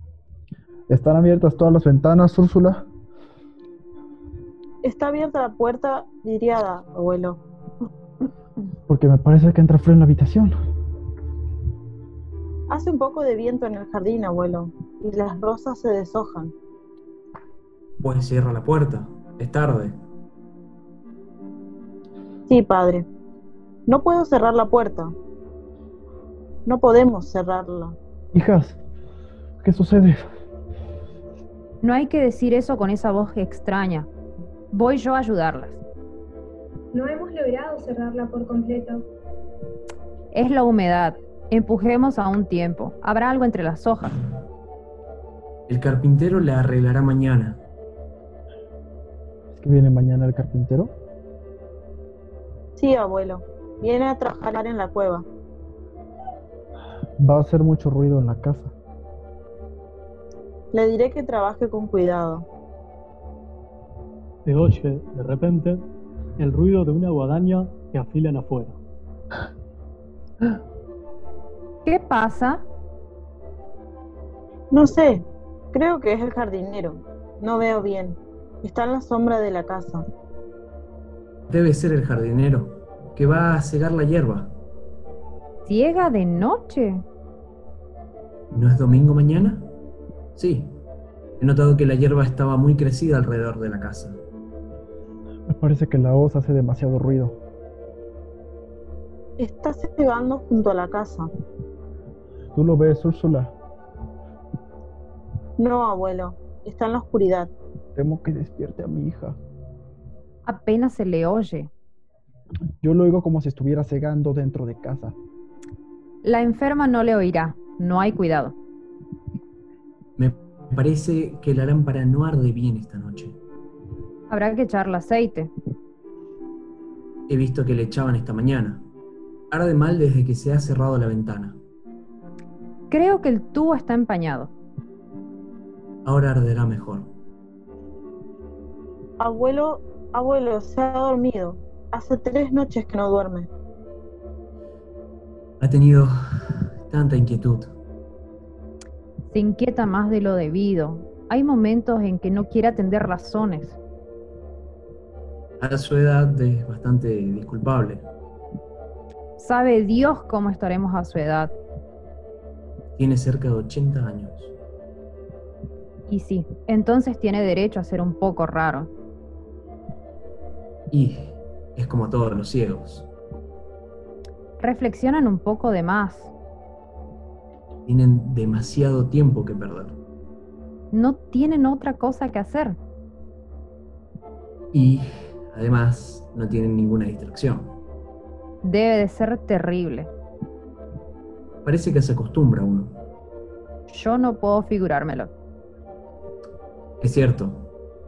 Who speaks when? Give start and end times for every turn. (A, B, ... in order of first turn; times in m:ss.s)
0:00.9-0:02.9 A
0:04.8-0:07.4 B
0:08.9-0:10.6 A
0:12.7-0:16.5 B
0:18.0-0:20.0 C
0:22.5-0:23.1 B
0:23.9-0:25.1 B
0:26.7-0:28.0 B
0:28.3-0:28.8 A
0:29.6-0:30.3 A
0:31.8-0:34.1 D
0:34.7-0:35.8 D
0:36.9-0:39.1 E
0:40.3-0:44.2 D
0:45.7-0:47.6 C
0:49.5-0:50.9 A
0:52.8-0:55.2 B
0:57.2-0:58.7 A
1:00.7-1:02.4 B
1:04.4-1:05.9 F
1:06.4-1:08.8 F
1:11.8-1:12.6 D
1:14.7-1:20.0 B
1:21.5-1:24.5 C
1:25.7-1:27.0 D
1:28.5-1:29.7 C
1:30.4-1:30.7 C
1:31.4-1:34.2 C
1:35.5-1:37.4 A
1:39.4-1:41.3 B
1:42.5-1:43.5 A
1:45.6-1:47.5 B
1:48.0-1:49.4 A
1:50.5-1:51.7 D
1:52.8-1:55.2 A
1:56.2-1:58.6 D
2:00.2-2:03.4 C
2:04.3-2:05.5 D
2:07.3-2:08.8 C
2:09.5-2:11.6 C
2:12.9-2:14.5 D
2:16.0-2:17.1 C
2:19.2-2:23.5 B
2:25.6-2:27.7 C
2:29.3-2:33.8 D
2:35.6-2:38.1 C
2:39.4-2:41.5 D
2:43.0-2:44.5 C
2:46.1-2:48.9 D
2:50.9-2:53.1 C
2:54.6-2:56.3 D
2:57.9-3:00.0 C
3:00.9-3:02.8 D
3:04.7-3:07.8 C
3:08.6-3:10.1 D
3:11.6-3:13.0 C
3:13.9-3:15.3 D
3:17.0-3:17.7 C